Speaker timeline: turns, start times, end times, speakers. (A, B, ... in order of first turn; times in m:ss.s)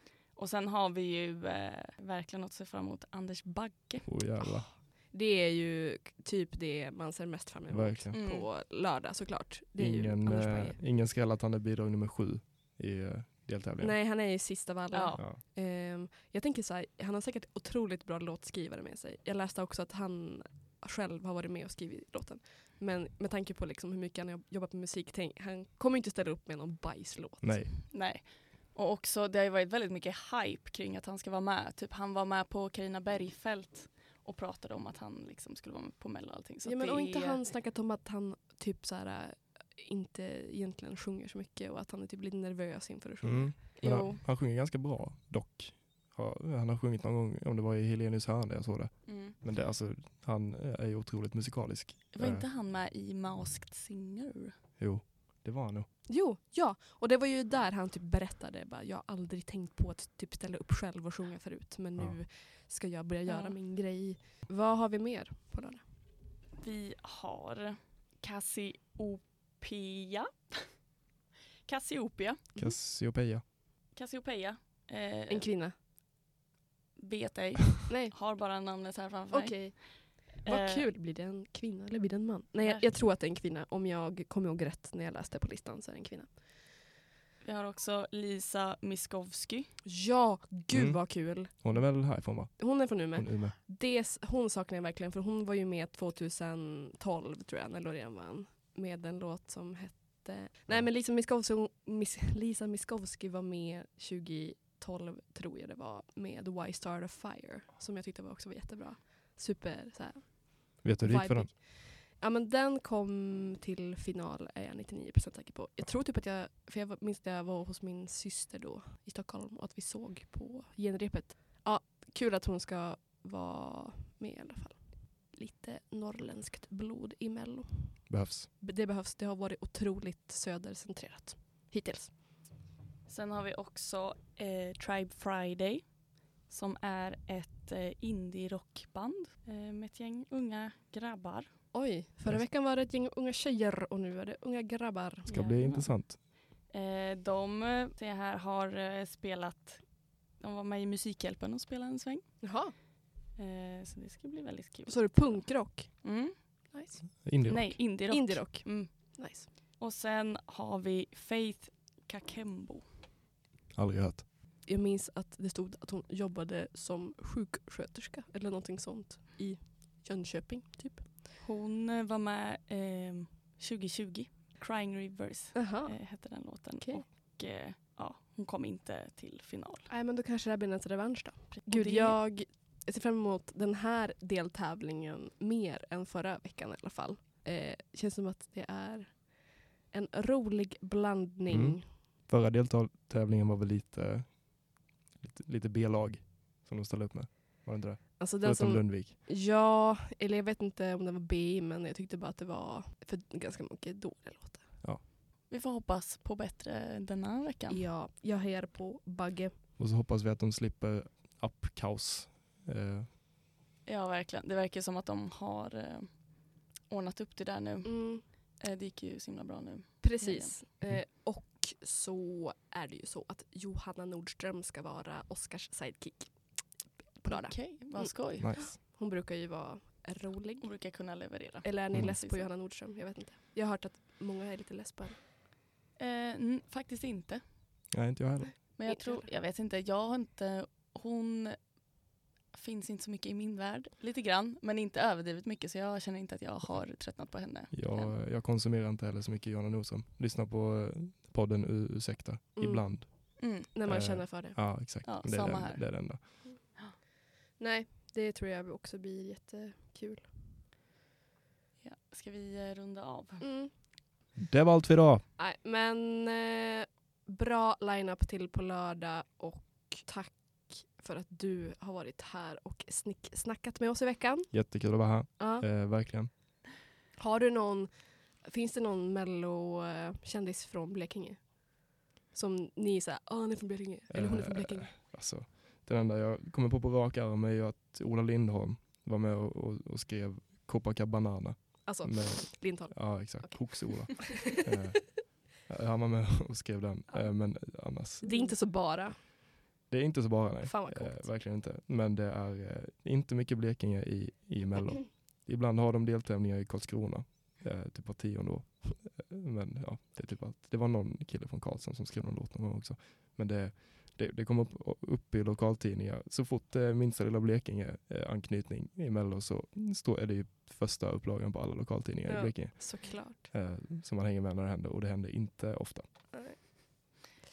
0:00.3-0:04.1 A
0:04.0-0:04.7 B
0:05.1-0:10.8 C
0:07.7-0:08.1 B
0:08.1-0:08.4 A
0:09.8-0:14.0 B
0:13.8-0:27.6 C
0:14.9-0:15.2 A
0:27.4-0:27.7 B
0:27.9-0:37.4 A
0:36.6-0:43.5 C
0:43.2-0:52.4 B
0:43.8-0:44.2 A
0:49.0-0:49.4 A
0:52.1-0:54.5 A
0:54.8-0:55.9 B
0:56.1-1:05.8 C
1:03.2-1:03.6 A
1:06.6-1:10.6 A
1:11.6-1:12.4 A
1:12.6-1:13.4 B
1:13.9-1:15.5 A
1:15.3-1:15.7 C
1:17.0-1:20.8 A
1:17.9-1:18.1 C
1:19.3-1:26.4 C
1:27.4-1:29.7 A
1:29.8-1:31.8 C
1:30.7-1:33.5 B
1:32.6-2:12.2 C
1:50.8-1:51.5 B
2:08.1-2:08.5 B
2:13.1-2:21.5 A
2:21.7-2:25.3 C
2:25.3-2:26.2 B
2:25.3-2:32.4 A
2:32.4-2:32.7 C
2:33.4-2:36.4 A
2:34.9-2:37.1 C
2:37.2-2:37.8 B
2:37.4-2:42.8 A
2:38.1-2:39.5 C
2:43.7-2:44.2 B
2:44.6-2:51.1 C
2:51.4-2:59.9 A
2:55.5-2:56.0 C
2:59.9-3:11.9 C
3:01.5-3:02.2 A
3:11.5-3:14.4 B
3:15.2-3:19.2 B
3:18.2-3:24.6 C
3:25.5-3:27.8 A
3:27.7-3:29.5 C
3:29.8-3:33.1 B
3:33.8-3:40.5 A
3:37.8-3:38.2 C
3:40.0-3:50.7 C
3:47.3-3:48.5 A
3:48.4-3:48.7 B
3:50.6-3:52.5 A
3:51.6-3:55.2 C
3:56.0-3:57.4 A
3:57.9-3:58.6 B
3:58.8-4:01.7 A
3:58.8-3:59.3 C
4:02.5-4:08.1 A
4:07.7-4:16.2 B
4:12.6-4:13.1 C
4:13.4-4:13.7 A
4:13.7-4:14.6 C
4:15.0-4:16.9 A
4:17.6-4:20.3 C
4:21.8-4:23.5 A
4:23.4-4:23.7 C
4:24.4-4:25.2 B
4:25.4-4:34.6 C
4:34.5-4:36.3 B
4:35.4-4:35.6 C
4:37.2-4:45.0 C
4:44.1-4:58.6 B
4:51.8-4:54.6 C
4:58.2-4:59.2 C
4:59.9-5:26.0 B
5:00.6-5:01.3 C
5:22.3-5:23.5 C
5:26.3-5:26.6 C